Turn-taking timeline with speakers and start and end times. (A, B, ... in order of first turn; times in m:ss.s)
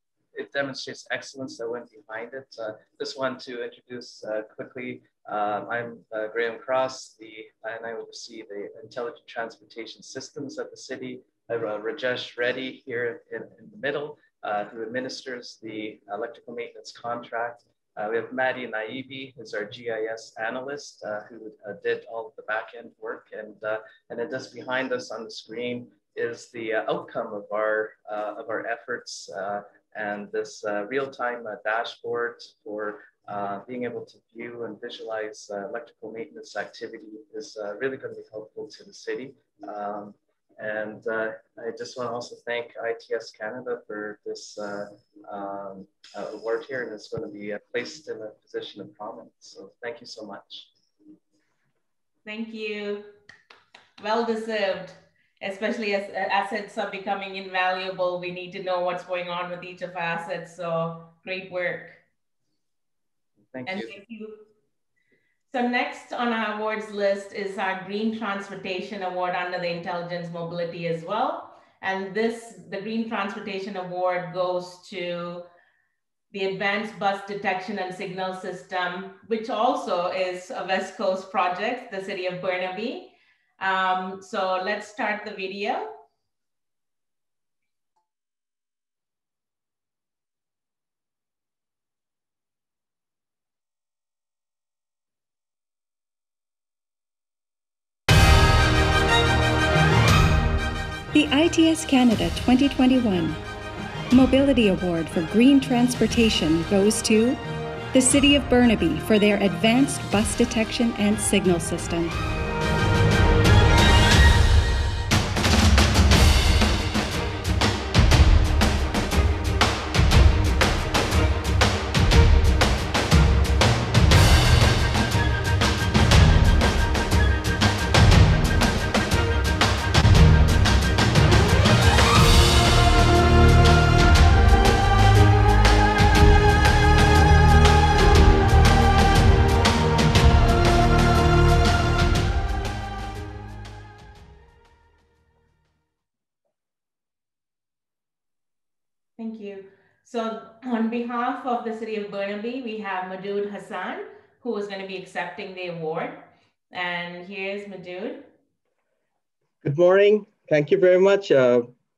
0:00.3-0:50.7 A
0:52.2-0:53.1 B
0:54.0-1:02.0 B
1:03.5-1:03.9 A
1:03.6-1:04.4 B
1:05.5-1:15.5 B
1:16.3-1:26.0 B
1:41.2-1:43.4 C
1:44.1-1:47.4 C
1:47.9-1:52.1 C
2:29.2-2:38.3 B
2:39.6-2:41.7 D